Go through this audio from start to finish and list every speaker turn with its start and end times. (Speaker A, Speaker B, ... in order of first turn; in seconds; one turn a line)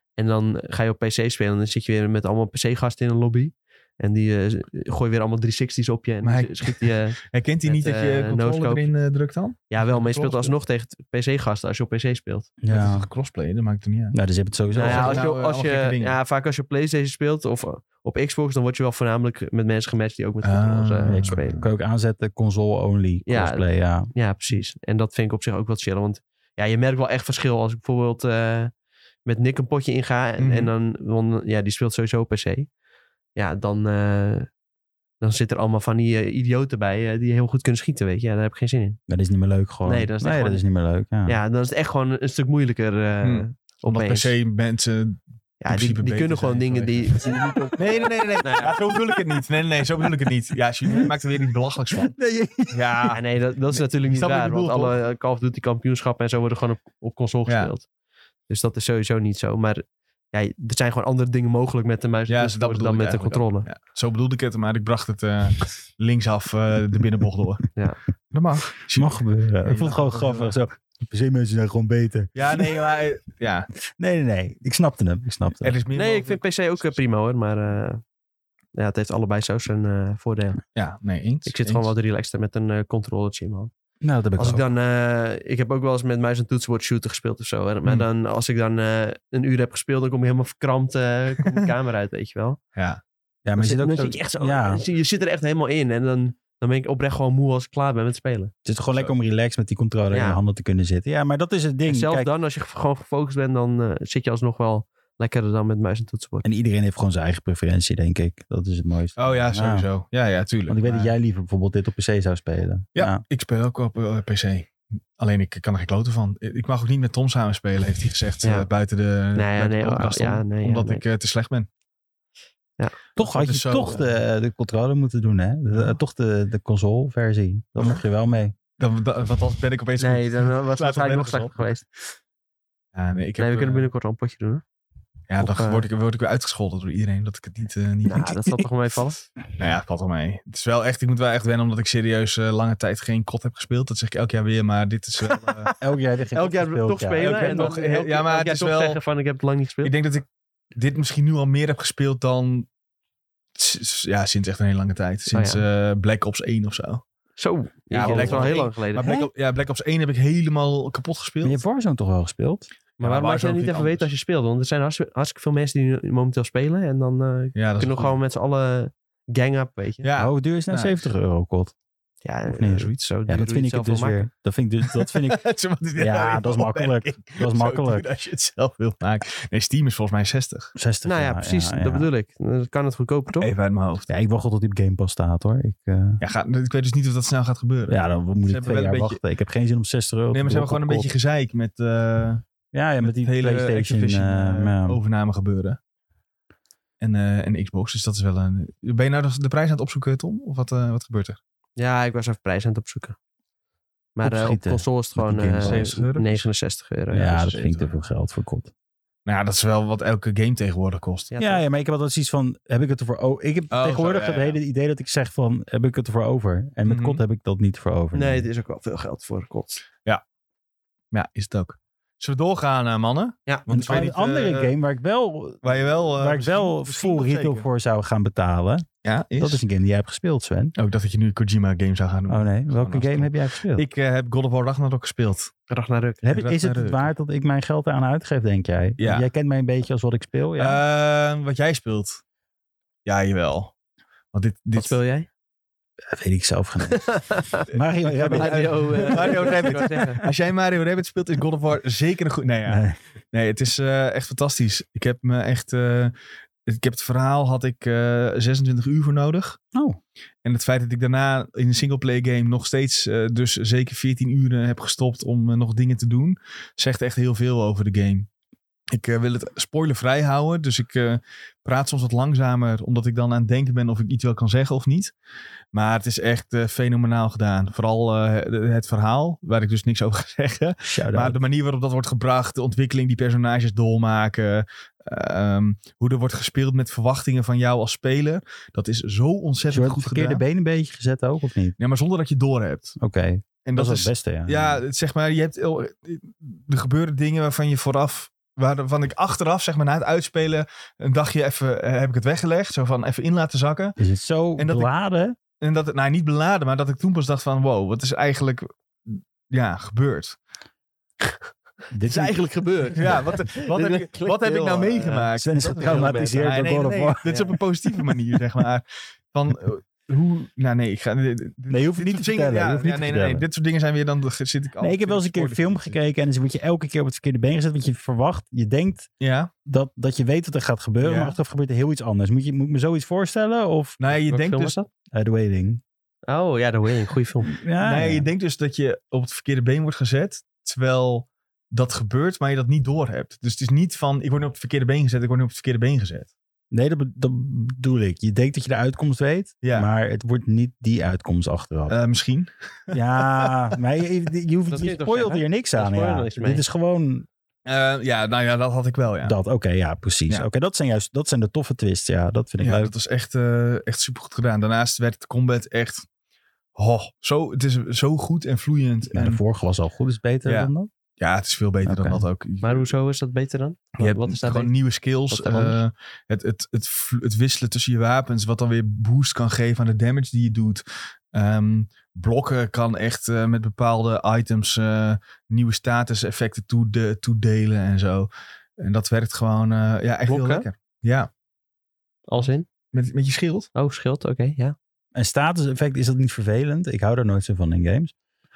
Speaker A: 0.2-8.9
Speaker B: 6.2-10.6
Speaker A: 9.7-12.5
Speaker C: 12.6-13.1
Speaker B: 12.7-14.2
Speaker C: 14.1-15.2
Speaker A: 14.7-21.6
Speaker B: 14.8-16.2
Speaker B: 20.4-21.7
Speaker C: 21.1-24.1
Speaker A: 23.3-28.7
Speaker A: 29.2-32.7
Speaker B: 30.4-30.7
Speaker A: 33.4-34.5
Speaker A: 35.2-39.0
Speaker C: 39.1-41.4
Speaker A: 39.9-40.6
Speaker A: 41.3-44.3
Speaker B: 43.2-47.1
Speaker A: 45.6-48.8
Speaker B: 47.8-52.1
Speaker C: 52.1-53.0
Speaker B: 52.7-53.2
Speaker A: 53.1-57.9
Speaker B: 53.7-55.0
Speaker B: 57.5-57.7
Speaker A: 58.5-63.7
Speaker B: 62.3-67.7
Speaker B: 68.3-70.6
Speaker C: 69.0-72.7
Speaker B: 72.3-73.7
Speaker C: 74.0-75.8
Speaker B: 75.6-77.0
Speaker A: 76.0-78.0
Speaker A: 78.7-80.6
Speaker B: 80.8-81.9
Speaker A: 81.5-83.7
Speaker C: 84.0-84.6
Speaker A: 84.4-92.6
Speaker B: 92.8-93.0
Speaker C: 93.5-94.8
Speaker A: 93.6-98.5
Speaker C: 98.7-102.3
Speaker A: 100.1-100.4
Speaker A: 101.9-106.5
Speaker C: 106.4-109.9
Speaker B: 109.2-111.1
Speaker C: 110.7-113.2
Speaker B: 113.0-121.7
Speaker A: 119.4-121.0
Speaker B: 123.2-124.2
Speaker C: 123.2-128.5
Speaker B: 125.7-126.0
Speaker B: 128.8-131.6
Speaker A: 130.0-131.9
Speaker B: 132.9-133.9
Speaker A: 133.4-134.6
Speaker B: 135.3-138.3
Speaker A: 135.4-135.8
Speaker A: 138.1-139.2
Speaker C: 138.1-138.7
Speaker B: 139.6-145.7
Speaker A: 145.3-145.8
Speaker C: 145.8-147.7
Speaker A: 146.3-149.9
Speaker B: 147.2-149.0
Speaker B: 149.8-152.7
Speaker B: 153.6-157.0
Speaker A: 155.3-155.6
Speaker A: 157.4-159.2
Speaker B: 157.9-161.6
Speaker C: 158.0-159.3
Speaker C: 161.4-162.7
Speaker B: 163.0-164.1
Speaker A: 163.0-170.1
Speaker B: 167.6-168.2
Speaker B: 170.0-171.0
Speaker C: 170.2-171.7
Speaker A: 172.2-174.3
Speaker C: 172.5-178.0
Speaker B: 174.9-180.7
Speaker C: 180.8-182.1
Speaker A: 181.0-183.5
Speaker B: 183.4-184.1
Speaker C: 184.1-186.2
Speaker B: 186.2-189.2
Speaker C: 187.9-191.1
Speaker B: 190.3-192.4
Speaker C: 192.7-195.0
Speaker B: 193.0-195.8
Speaker B: 197.0-201.4
Speaker A: 201.8-203.2
Speaker A: 204.2-207.8
Speaker C: 204.2-205.9
Speaker B: 205.6-206.4
Speaker C: 207.1-208.7
Speaker B: 209.3-211.3
Speaker A: 211.3-211.6
Speaker C: 211.4-218.5
Speaker B: 213.7-214.6
Speaker B: 216.8-217.2
Speaker A: 218.1-219.8
Speaker B: 221.1-224.7
Speaker C: 223.7-228.9
Speaker B: 225.6-227.7
Speaker B: 229.0-229.6
Speaker C: 229.4-230.7
Speaker B: 230.8-235.5
Speaker C: 232.3-233.8
Speaker A: 235.7-236.2
Speaker C: 236.2-240.8
Speaker B: 236.3-237.1
Speaker B: 239.0-239.3
Speaker B: 240.6-242.2
Speaker B: 243.1-243.7
Speaker B: 244.3-245.0
Speaker A: 244.8-245.3
Speaker C: 246.1-250.2
Speaker A: 246.9-247.7
Speaker B: 247.7-256.1
Speaker A: 248.2-250.2
Speaker C: 252.7-253.0
Speaker B: 256.7-259.6
Speaker C: 259.7-260.0
Speaker B: 260.4-268.3
Speaker B: 268.9-275.1
Speaker B: 275.7-290.4
Speaker C: 280.8-281.4
Speaker C: 289.7-291.8
Speaker B: 291.8-292.9
Speaker C: 293.0-294.8
Speaker B: 293.6-304.0
Speaker C: 304.0-305.4
Speaker B: 304.6-304.9
Speaker B: 305.6-310.4
Speaker C: 311.9-312.4
Speaker A: 312.1-316.5
Speaker B: 312.9-326.0
Speaker C: 315.4-317.3
Speaker A: 317.2-317.6
Speaker C: 321.7-323.4
Speaker C: 324.8-329.1
Speaker B: 329.2-329.5
Speaker C: 329.7-334.0
Speaker B: 331.0-331.4
Speaker B: 334.0-334.8
Speaker A: 334.2-334.9
Speaker C: 335.1-335.8
Speaker A: 336.3-337.6
Speaker C: 337.5-338.3
Speaker B: 337.8-346.3
Speaker C: 346.7-352.0
Speaker B: 349.6-349.9
Speaker B: 351.9-353.5
Speaker C: 352.9-357.3
Speaker A: 354.7-356.6
Speaker B: 357.7-359.4
Speaker C: 359.2-362.9
Speaker B: 362.6-366.1
Speaker B: 366.8-369.4
Speaker C: 369.1-370.9
Speaker B: 370.4-372.9
Speaker C: 371.9-372.2
Speaker A: 372.6-374.7
Speaker B: 374.0-391.3
Speaker A: 375.3-375.8
Speaker A: 390.3-390.7
Speaker A: 392.3-392.7
Speaker B: 392.9-393.7
Speaker A: 393.8-394.8
Speaker C: 395.1-398.1